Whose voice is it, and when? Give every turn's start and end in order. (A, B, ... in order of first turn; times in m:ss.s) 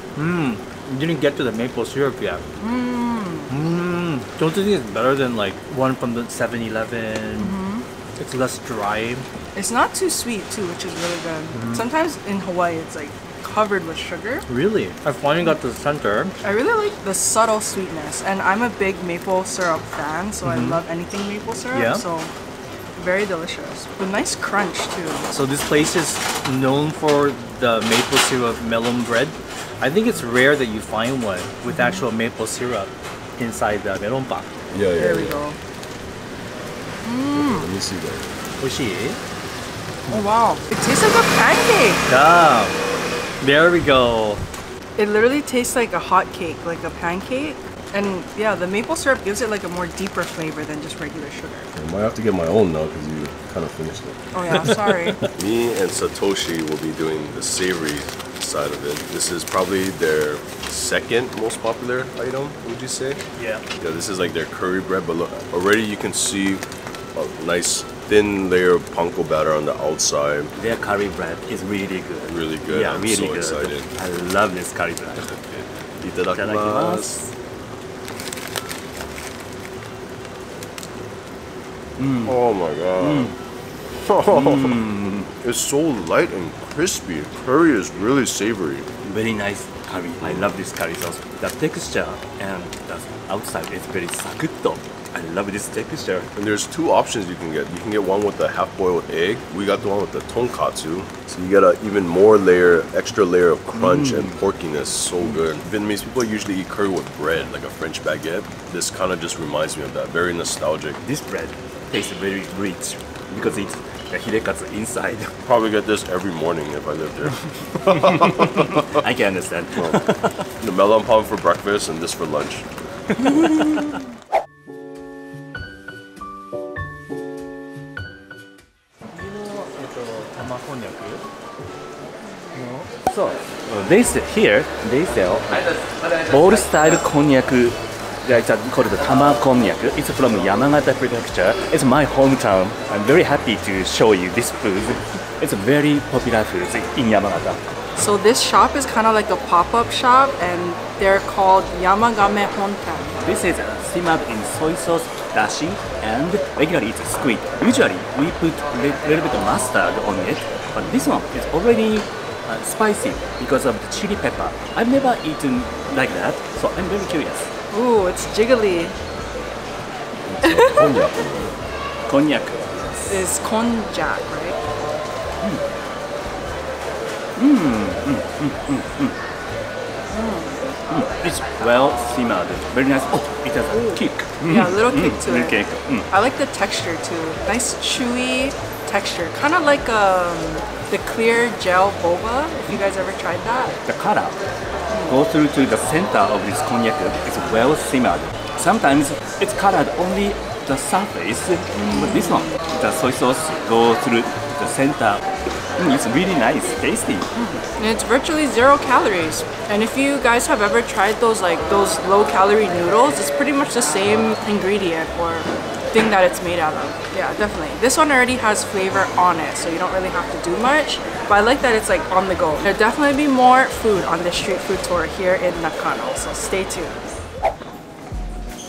0:00.2-0:02.4 A
0:02.6-0:03.5 B
0:03.5-0:07.6 A
0:07.4-0:07.8 B
0:08.2-0:09.2 A
0:09.5-0:14.4 B
0:11.5-0:11.9 A
0:14.5-0:16.3 A
0:16.4-0:22.3 B
0:20.4-0:20.8 A
0:21.7-0:22.0 A
0:23.0-0:25.3 B
0:25.3-0:34.5 A
0:34.7-0:35.4 C
0:34.9-0:35.6 B
0:37.0-0:37.7 B
0:37.3-0:38.3 C
0:38.6-0:39.2 A
0:40.1-0:42.0 B
0:42.1-0:42.7 A
0:43.4-0:44.4 A
0:45.0-0:51.7 B
0:51.7-0:54.7 C
0:54.3-0:55.2 B
0:55.3-1:03.2 C
1:03.3-1:03.6 A
1:03.8-1:06.6 C
1:07.1-1:10.5 C
1:10.6-1:15.6 D
1:12.2-1:13.9 C
1:16.0-1:17.2 C
1:16.3-1:17.3 D
1:22.0-1:22.4 D
1:22.2-1:23.3 C
1:23.0-1:23.3 D
1:24.0-1:24.8 C
1:24.3-1:25.3 D
1:25.4-1:28.9 C
1:29.0-1:36.3 D
1:30.2-1:30.5 C
1:36.3-1:51.0 C
1:43.7-1:44.4 D
1:51.0-1:55.3 D
1:53.4-1:53.7 C
1:55.4-1:59.0 C
1:57.9-2:00.5 D
2:00.6-2:02.6 C
2:09.1-2:11.2 A
2:12.5-2:12.9 A
2:13.0-2:27.6 D
2:28.0-2:33.2 B
2:33.2-2:47.5 D
2:47.7-2:49.0 B
2:50.2-2:51.6 C
2:50.4-2:51.0 B
2:52.0-2:53.1 D
2:53.1-2:54.6 B
2:57.4-2:59.1 D
3:00.1-3:00.6 B
3:00.9-3:06.1 D
3:03.7-3:13.8 B
3:13.9-3:14.4 D
3:15.1-3:25.2 D
3:21.9-3:22.5 B
3:25.8-3:27.3 D
3:27.4-3:47.0 B